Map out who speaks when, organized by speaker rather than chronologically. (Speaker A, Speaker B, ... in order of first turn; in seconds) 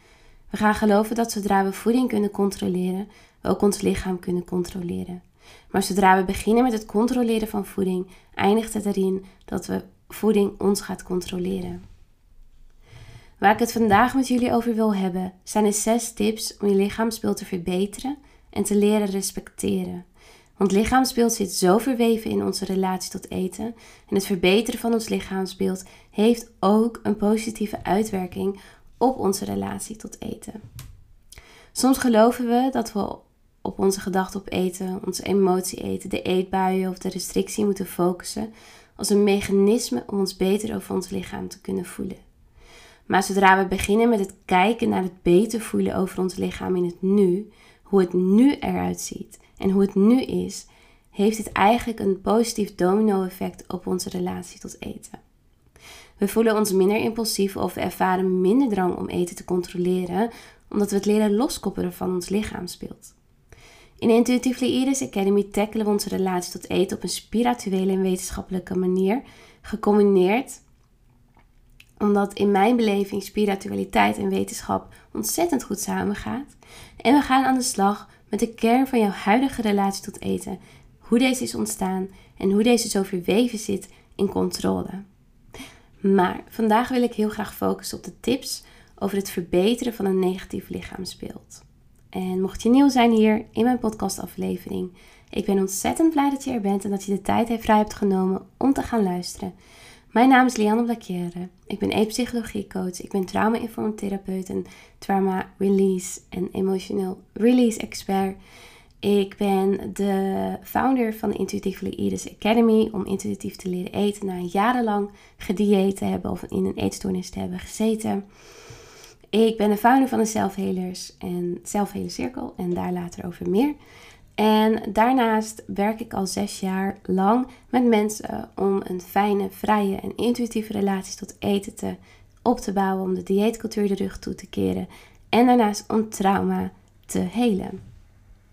Speaker A: 0.5-11.8, 13.4-20.0, 20.6-30.6, 31.7-42.2, 43.1-55.2, 56.2-63.1, 64.0-70.6, 72.0-85.0, 86.0-99.5, 100.1-108.4, 109.0-118.2, 119.3-123.8, 124.4-137.8